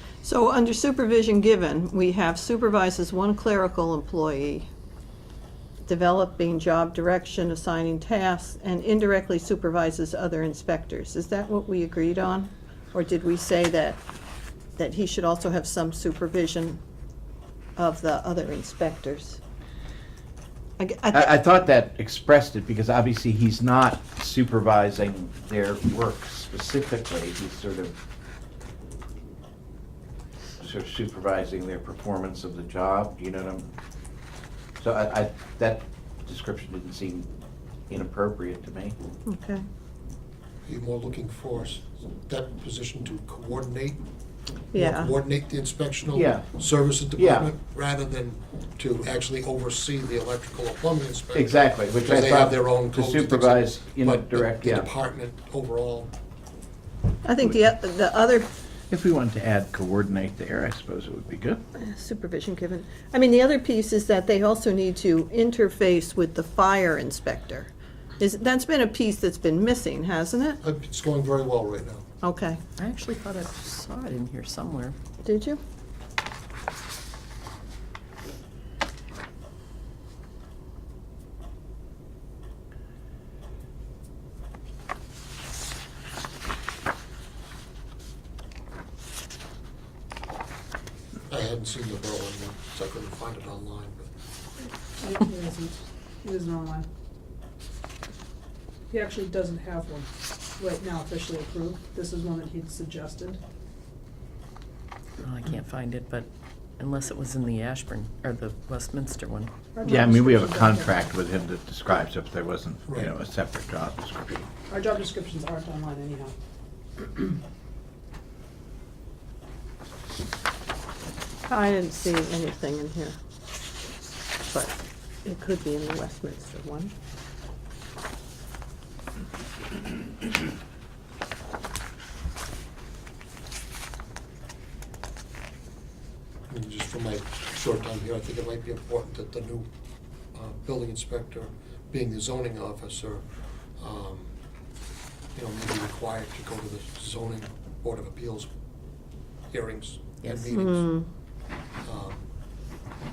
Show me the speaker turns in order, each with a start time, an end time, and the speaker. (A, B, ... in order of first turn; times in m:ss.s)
0:00.2-0:04.7 A
0:05.8-0:14.0 A
0:14.8-0:16.8 A
0:17.8-0:19.4 A
0:20.8-0:21.3 A
0:21.1-0:27.9 B
0:30.6-0:33.7 B
0:34.8-0:37.3 B
0:37.9-0:39.0 B
0:39.2-0:39.6 A
0:40.6-0:44.0 C
0:44.7-0:45.1 A
0:44.7-0:56.1 C
0:46.1-0:46.5 B
0:47.2-0:47.5 B
0:51.3-0:54.9 B
0:57.2-0:58.5 A
0:58.9-1:01.6 B
1:01.8-1:10.6 A
1:10.6-1:12.0 C
1:12.2-1:12.6 A
1:12.8-1:14.9 D
1:15.2-1:15.6 A
1:31.3-1:34.1 C
1:35.0-1:36.8 E
1:38.9-1:43.4 E
1:45.2-1:49.5 D
1:49.7-1:51.0 E
1:49.8-1:54.5 B
1:54.7-1:56.3 E
2:01.5-2:03.2 A
2:04.5-2:06.9 A
2:16.5-2:19.7 C
2:20.3-2:24.3 C
2:25.3-2:28.5 C
2:29.5-2:30.9 C
2:30.5-2:31.1 A
2:31.8-2:32.2 C